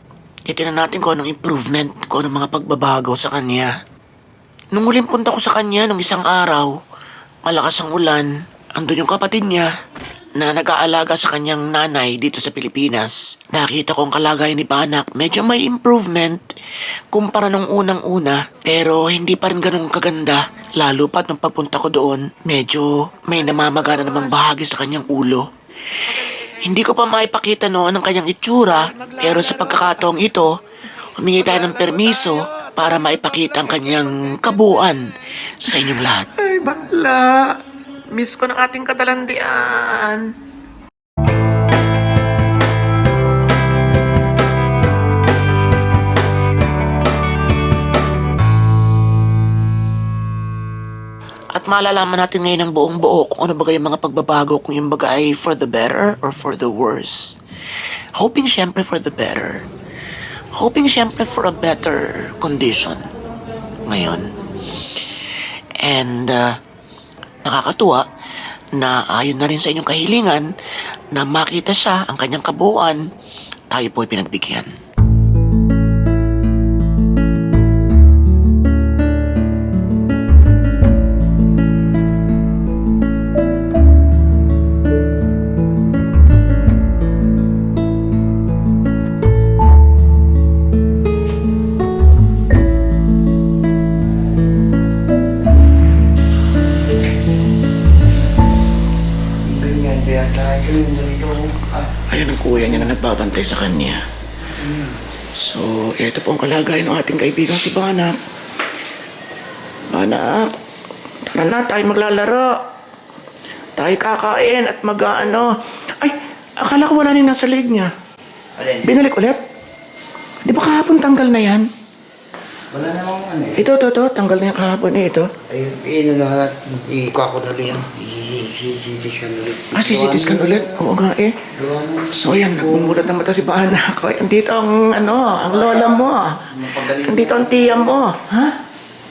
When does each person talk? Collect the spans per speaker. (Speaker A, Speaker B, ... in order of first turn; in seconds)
Speaker A: 0.5-3.7, 4.7-6.7, 7.4-9.7, 10.3-16.5, 17.1-25.5, 26.0-30.5, 31.1-40.3, 51.5-57.4, 58.1-59.6, 60.5-63.1, 63.8-64.3, 65.8-66.6, 67.4-68.1, 68.7-70.5, 71.1-73.0, 73.7-74.7, 102.1-104.0, 105.3-108.2, 109.9-110.5, 111.2-112.5, 113.8-117.9, 118.8-119.4, 120.4-121.7, 123.5-125.3, 129.7-131.4, 132.1-138.6
Speaker B: 99.4-101.9, 104.4-105.0, 118.6-119.0, 122.7-123.6, 125.5-130.8, 131.5-133.0, 135.2-138.0